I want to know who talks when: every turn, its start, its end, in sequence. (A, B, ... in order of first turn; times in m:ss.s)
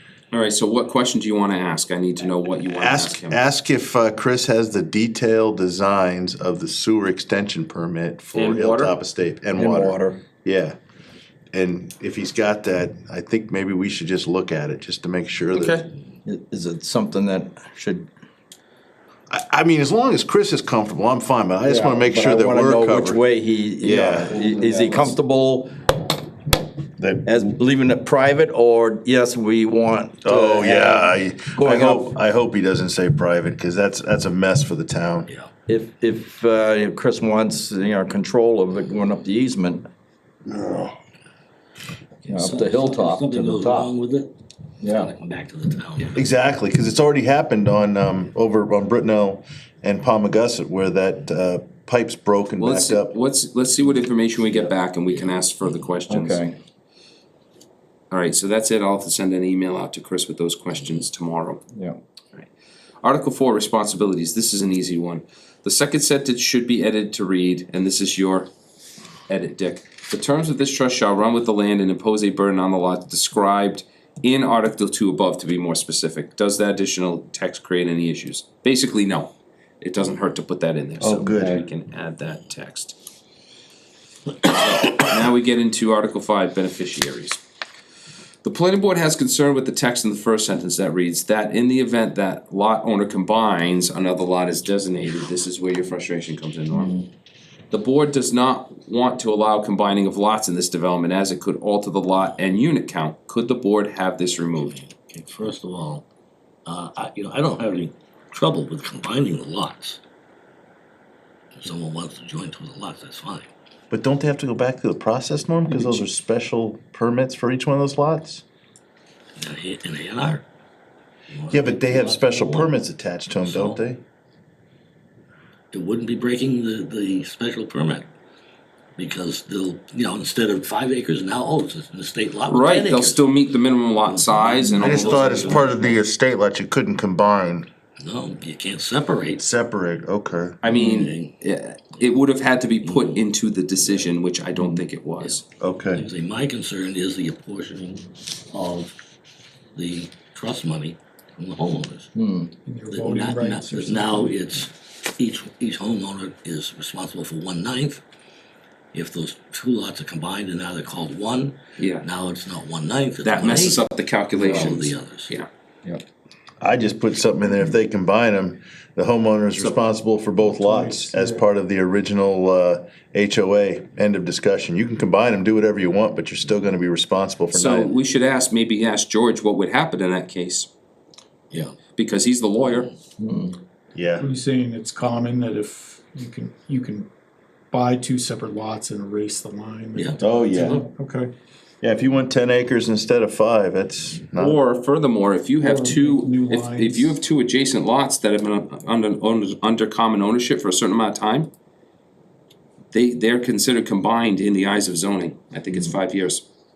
0:00.3-0:03.4 A
0:02.7-0:10.8 B
0:08.3-0:09.0 A
0:09.6-0:10.2 C
0:11.5-0:15.8 B
0:15.5-0:15.8 A
0:16.2-0:18.1 C
0:19.3-0:23.2 B
0:21.6-0:25.7 C
0:23.8-0:25.0 B
0:27.0-0:27.4 B
0:27.2-0:32.1 C
0:30.2-0:35.3 B
0:35.7-0:39.9 C
0:40.5-0:40.9 B
0:42.2-0:44.3 D
0:42.3-0:43.9 C
0:44.8-0:45.1 C
0:44.9-0:46.2 D
0:46.1-0:53.1 B
0:52.6-0:56.4 A
0:55.1-0:55.8 D
0:56.1-0:56.6 C
0:58.1-1:01.6 A
1:01.7-1:02.0 C
1:03.0-1:08.5 A
1:09.3-1:23.0 A
1:21.0-1:21.6 B
1:24.4-1:27.4 A
1:28.4-1:37.0 A
1:36.7-1:37.0 C
1:37.7-1:44.8 A
1:44.6-1:46.1 D
1:46.7-1:50.0 D
1:51.6-1:53.5 D
1:53.9-1:58.4 B
1:59.4-2:00.4 D
2:01.3-2:02.7 D
2:01.5-2:04.0 B
2:03.3-2:03.8 D
2:05.7-2:08.1 D
2:09.0-2:13.2 D
2:12.5-2:15.7 A
2:14.0-2:16.0 D
2:14.8-2:17.7 B
2:18.0-2:19.4 D
2:19.4-2:20.6 B
2:20.6-2:25.4 A
2:20.7-2:21.4 D
2:22.8-2:23.3 D
2:25.6-2:26.0 B
2:25.9-2:29.0 D
2:29.7-2:32.1 D
2:32.2-2:32.5 C
2:32.7-2:34.4 E
2:32.9-2:38.0 D
2:38.9-2:45.3 D
2:41.8-2:42.1 A
2:43.2-2:45.5 A
2:44.4-2:44.7 C
2:46.6-2:57.9 B
2:49.6-2:49.8 A
2:50.4-2:51.4 E
2:57.5-3:00.7 A
3:01.5-3:01.8 D
3:02.0-3:02.9 A
3:03.2-3:03.6 C
3:03.9-3:04.3 B
3:04.2-3:07.1 E
3:07.7-3:11.3 E
3:10.2-3:10.8 B
3:11.8-3:14.6 B
3:14.4-3:21.5 A
3:15.6-3:17.1 E
3:22.9-3:26.4 A